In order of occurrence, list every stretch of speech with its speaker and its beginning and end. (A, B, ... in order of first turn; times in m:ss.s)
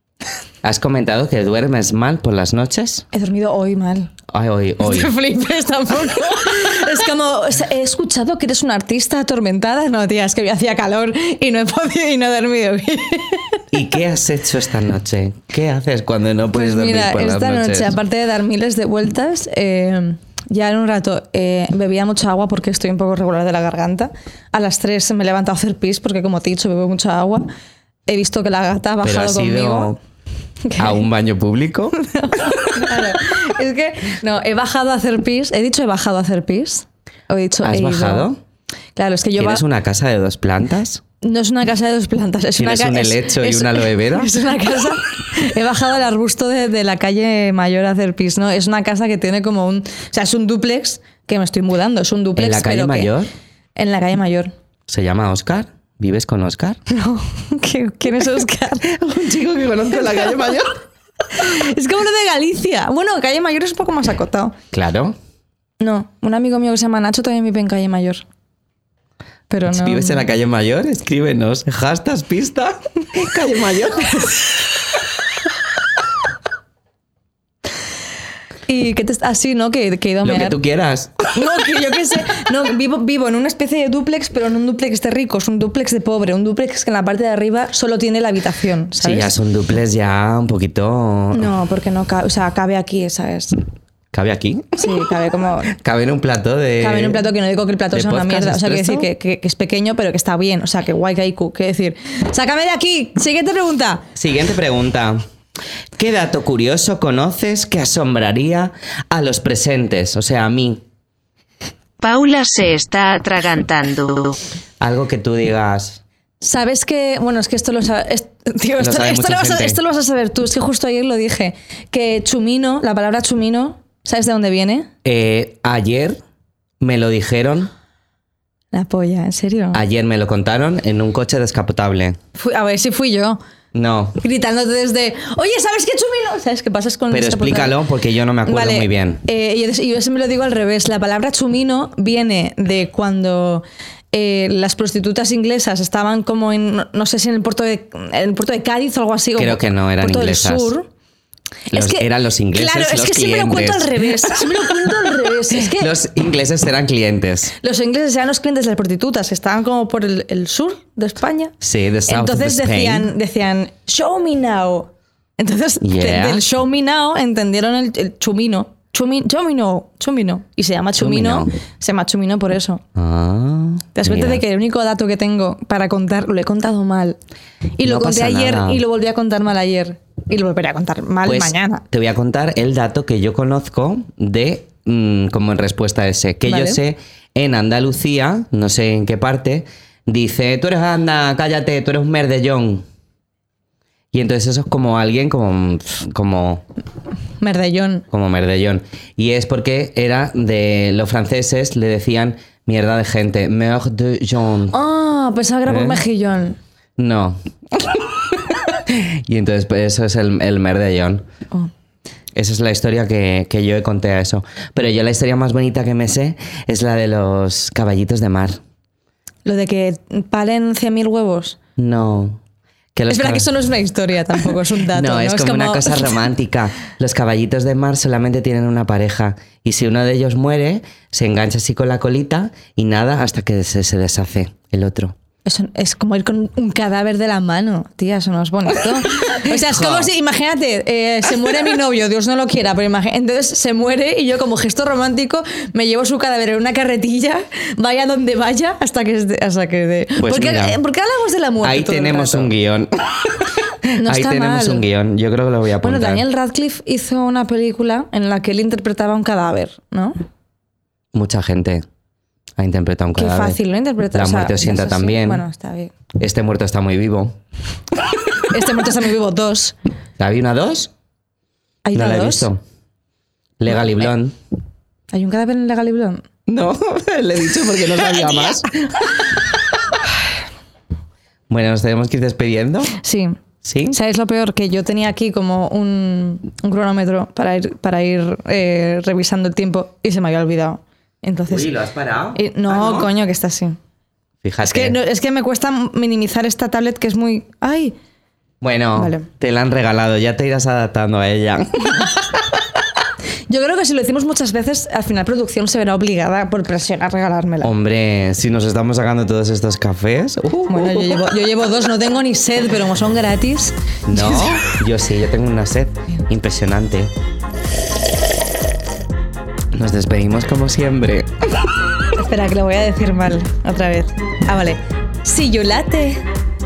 0:00.6-0:03.0 A
0:03.1-0:04.1 B
0:04.3-0:05.1 A
0:04.8-0:13.6 B
0:13.7-0:18.0 A
0:16.5-0:27.5 B
0:28.1-0:30.0 B
0:29.0-0:30.0 A
0:30.6-0:31.0 B
0:30.8-0:31.9 A
0:31.9-0:38.3 B
0:37.6-0:38.4 A
0:39.0-0:39.6 B
0:39.4-0:41.0 A
0:41.2-0:53.1 B
0:42.6-0:44.3 A
0:52.4-0:53.3 A
0:53.8-0:54.5 B
0:54.9-0:56.8 A
0:56.9-0:58.9 B
0:58.9-1:00.8 A
1:01.3-1:04.6 B
1:04.7-1:05.2 A
1:05.8-1:08.2 B
1:09.5-1:10.2 B
1:09.6-1:14.4 A
1:18.7-1:20.6 B
1:20.2-1:21.2 A
1:21.3-1:29.3 B
1:29.0-1:31.5 A
1:31.3-1:33.6 B
1:34.1-1:34.9 A
1:34.8-1:35.7 B
1:35.7-1:37.2 A
1:36.8-1:44.1 B
1:37.9-1:39.1 A
1:44.2-1:45.2 A
1:46.0-1:50.8 A
1:52.0-1:54.4 C
1:54.8-1:56.0 A
1:56.4-2:04.9 B
1:58.8-1:59.8 A
2:05.0-2:06.2 A
2:06.8-2:07.7 A
2:08.7-2:09.8 B
2:09.7-2:12.2 A
2:12.3-2:13.4 B
2:13.7-2:14.2 A
2:14.2-2:17.8 B
2:17.1-2:19.2 A
2:18.4-2:30.9 B
2:29.4-2:30.7 A
2:31.7-2:35.9 B
2:31.7-2:34.4 A
2:35.5-2:37.5 A
2:37.6-2:41.6 B
2:41.6-2:43.1 A
2:42.1-2:52.8 B
2:45.8-2:46.4 A
2:51.0-2:51.5 A
2:52.9-2:54.4 A
2:54.0-2:57.2 B
2:57.8-3:01.8 B
2:57.8-2:58.8 A
3:01.2-3:12.8 A
3:06.4-3:06.8 B
3:14.1-3:16.6 A
3:17.4-3:18.0 B
3:18.1-3:24.7 A
3:24.7-3:26.6 B
3:25.6-3:26.0 A
3:27.0-3:27.4 A
3:28.8-3:31.2 A
3:32.3-3:38.6 A
3:39.4-3:41.6 B
3:41.8-3:42.4 A
3:43.0-3:43.5 A
3:43.1-3:46.1 B
3:44.9-3:55.1 A
3:55.4-4:12.5 B
3:59.4-4:00.1 A
4:10.2-4:10.8 A
4:11.6-4:12.9 A
4:13.9-4:14.8 B
4:14.0-4:16.2 A
4:15.8-4:20.1 B
4:21.1-4:21.8 A
4:22.6-4:23.6 A
4:23.2-4:25.9 B
4:24.1-4:25.4 A
4:26.1-4:27.4 A
4:28.5-4:29.7 B
4:30.2-4:30.9 A
4:31.8-4:32.5 B
4:31.9-4:32.6 A
4:33.6-4:34.3 A
4:35.1-4:36.2 B
4:36.5-4:38.7 A
4:41.5-4:43.0 A
4:43.0-4:43.4 B
4:43.6-4:44.0 A
4:43.9-4:51.7 B
4:51.5-4:53.1 A
4:52.3-4:53.8 B
4:54.4-4:55.0 A
4:54.6-4:57.9 B
4:58.6-5:02.2 A
4:59.0-4:59.3 B
5:03.5-5:07.7 B
5:07.6-5:11.2 A
5:10.7-5:14.5 B
5:14.1-5:17.1 A
5:19.7-5:21.3 A
5:22.2-5:26.2 B